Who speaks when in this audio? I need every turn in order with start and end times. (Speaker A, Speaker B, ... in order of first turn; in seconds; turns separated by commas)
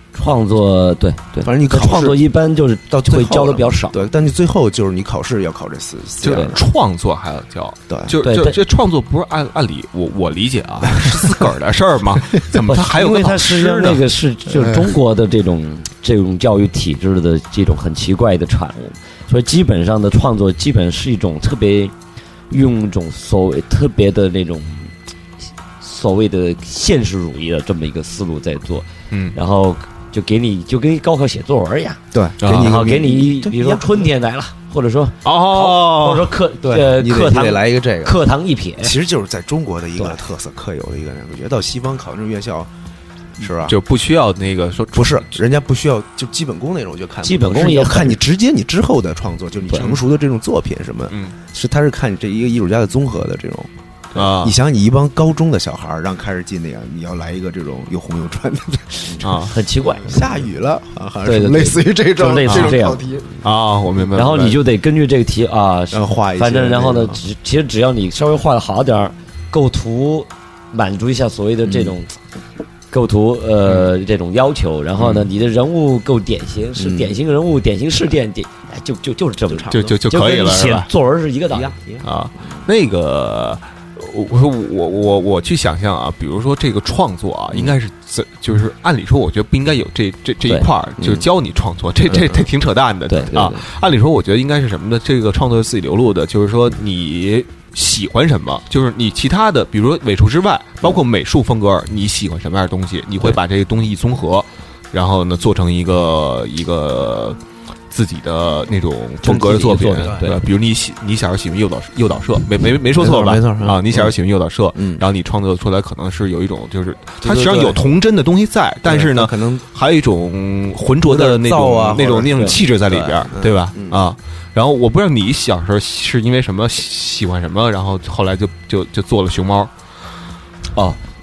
Speaker A: 0.1-4.0, Speaker B: 1.4-2.2, Speaker B: 2.9-6.6, Speaker C: 6.2-14.1, Speaker B: 7.9-8.2, Speaker A: 8.2-8.6, Speaker B: 10.9-11.5, Speaker B: 12.3-12.6, Speaker A: 12.5-21.9, Speaker A: 22.5-24.9, Speaker A: 25.8-38.9, Speaker B: 32.1-34.1, Speaker C: 32.4-32.8, Speaker C: 35.2-36.3, Speaker B: 36.6-38.2, Speaker B: 38.8-42.7, Speaker B: 43.4-43.8, Speaker C: 43.6-45.4, Speaker B: 44.9-59.4, Speaker A: 47.2-48.2, Speaker C: 49.7-50.0, Speaker C: 51.1-51.3, Speaker C: 54.1-54.5, Speaker C: 59.2-59.5, Speaker A: 59.4-60.4, Speaker B: 60.0-63.3, Speaker A: 61.2-63.1, Speaker C: 62.5-62.8, Speaker C: 63.4-64.6, Speaker A: 64.1-72.1, Speaker B: 65.9-67.2, Speaker A: 72.9-81.7, Speaker B: 76.8-77.2, Speaker B: 79.4-80.0, Speaker C: 79.7-80.9, Speaker B: 81.5-82.1, Speaker C: 82.0-107.4, Speaker B: 87.5-87.8, Speaker B: 91.0-91.3, Speaker A: 93.1-93.7, Speaker C: 107.9-129.7, Speaker A: 109.2-110.4, Speaker B: 109.4-110.3, Speaker B: 112.9-114.1, Speaker B: 114.7-115.0, Speaker B: 117.2-117.8, Speaker B: 118.8-119.6, Speaker B: 121.0-124.0, Speaker A: 122.3-122.6